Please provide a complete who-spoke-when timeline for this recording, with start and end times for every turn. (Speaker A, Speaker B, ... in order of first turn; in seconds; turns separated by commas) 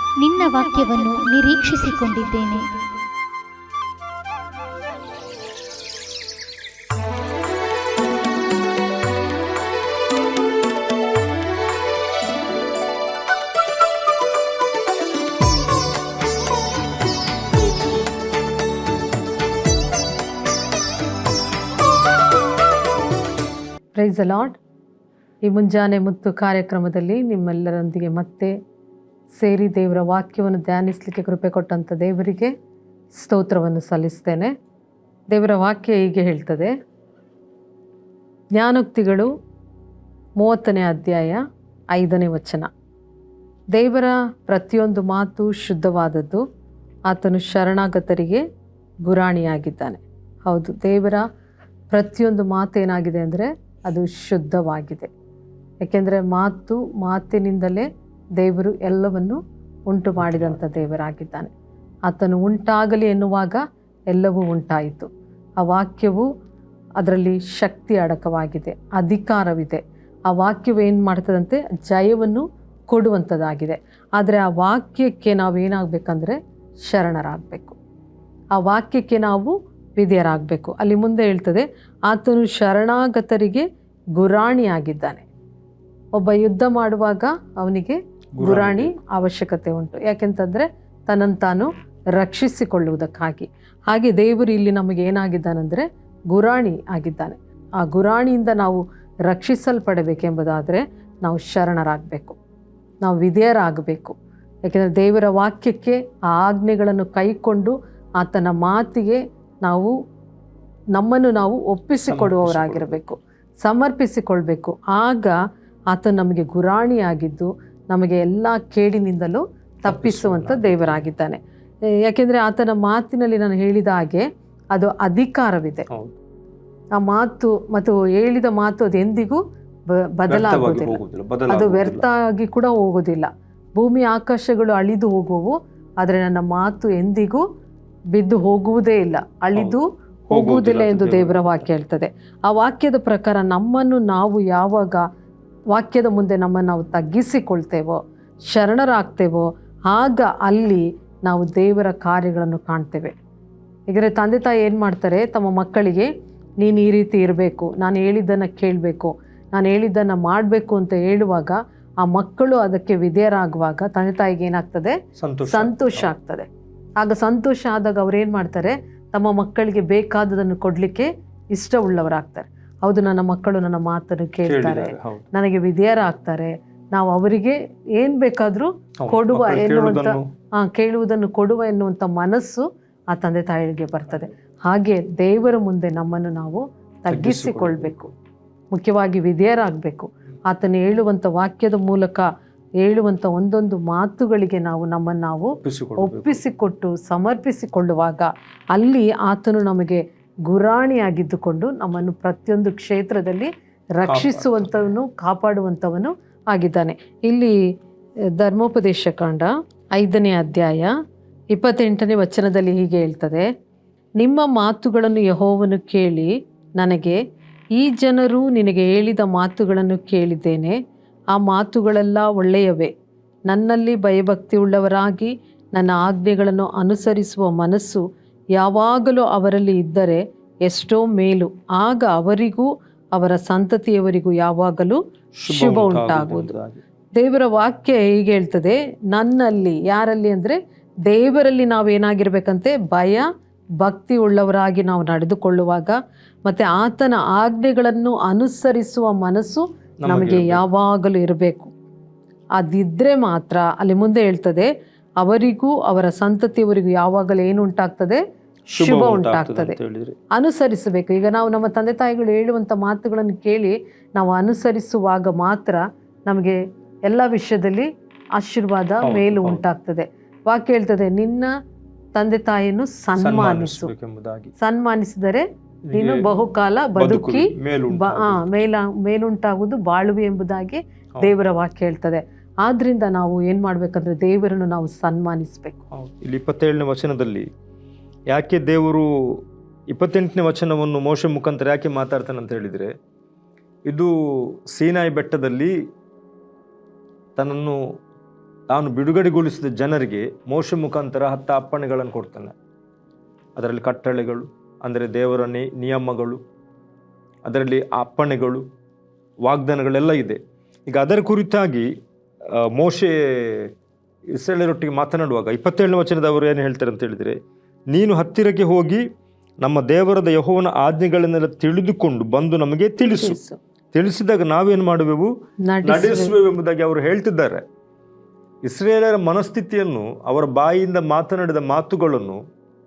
Speaker A: 0.2-2.7, Speaker B: 24.0-24.6, Speaker B: 25.4-28.5, Speaker B: 29.4-32.5, Speaker B: 33.2-34.5, Speaker B: 35.3-36.7, Speaker B: 38.6-39.3, Speaker B: 40.4-41.4, Speaker B: 41.9-42.7, Speaker B: 43.8-46.4, Speaker B: 47.1-48.4, Speaker B: 49.1-51.2, Speaker B: 51.9-55.1, Speaker B: 55.8-57.9, Speaker B: 58.4-61.5, Speaker C: 60.2-60.6, Speaker B: 62.1-63.6, Speaker B: 64.1-65.1, Speaker B: 65.6-66.3, Speaker B: 67.0-76.4, Speaker B: 76.9-77.8, Speaker B: 78.5-83.6, Speaker B: 84.2-85.2, Speaker B: 86.2-102.4, Speaker C: 88.4-88.9, Speaker B: 103.0-104.2, Speaker B: 104.7-109.9, Speaker B: 111.0-115.3, Speaker C: 112.0-113.0, Speaker B: 115.9-121.4, Speaker C: 119.9-121.1, Speaker B: 122.1-125.9, Speaker C: 125.9-126.2, Speaker B: 127.0-129.4, Speaker B: 130.2-137.4, Speaker C: 130.3-132.1, Speaker B: 138.2-145.0, Speaker C: 140.3-141.7, Speaker B: 145.7-148.0, Speaker B: 148.5-153.2, Speaker B: 153.9-156.1, Speaker B: 156.6-164.9, Speaker C: 165.2-166.1, Speaker B: 165.5-166.5, Speaker B: 167.0-188.1, Speaker C: 174.4-175.3, Speaker C: 179.0-180.3, Speaker C: 187.1-188.1, Speaker B: 188.7-192.2, Speaker B: 192.8-207.5, Speaker C: 195.6-196.4, Speaker C: 204.0-204.8, Speaker B: 208.4-210.9, Speaker B: 211.5-213.5, Speaker B: 214.2-217.2, Speaker B: 217.8-220.8, Speaker B: 221.3-222.9, Speaker B: 223.5-228.0, Speaker B: 228.6-236.5, Speaker C: 235.4-236.8, Speaker B: 237.2-240.6, Speaker B: 241.1-243.3, Speaker B: 243.8-251.7, Speaker C: 250.0-250.6, Speaker B: 252.6-254.7, Speaker B: 255.2-258.2, Speaker B: 258.7-259.8, Speaker C: 258.8-260.2, Speaker B: 260.3-271.5, Speaker C: 269.0-269.6, Speaker B: 272.1-273.9, Speaker C: 273.2-274.5, Speaker B: 274.6-285.8, Speaker C: 275.9-276.3, Speaker C: 277.0-278.4, Speaker C: 285.9-287.5, Speaker C: 288.3-292.9, Speaker C: 293.9-295.7, Speaker C: 297.4-297.8, Speaker C: 298.7-302.6, Speaker C: 303.6-306.4, Speaker C: 307.4-308.6, Speaker C: 309.5-311.9, Speaker C: 312.5-313.7, Speaker C: 314.4-317.4, Speaker C: 317.9-319.0, Speaker C: 319.6-323.4, Speaker B: 323.1-323.6, Speaker C: 323.9-325.3, Speaker B: 325.7-326.4, Speaker C: 325.9-327.6, Speaker C: 328.6-332.4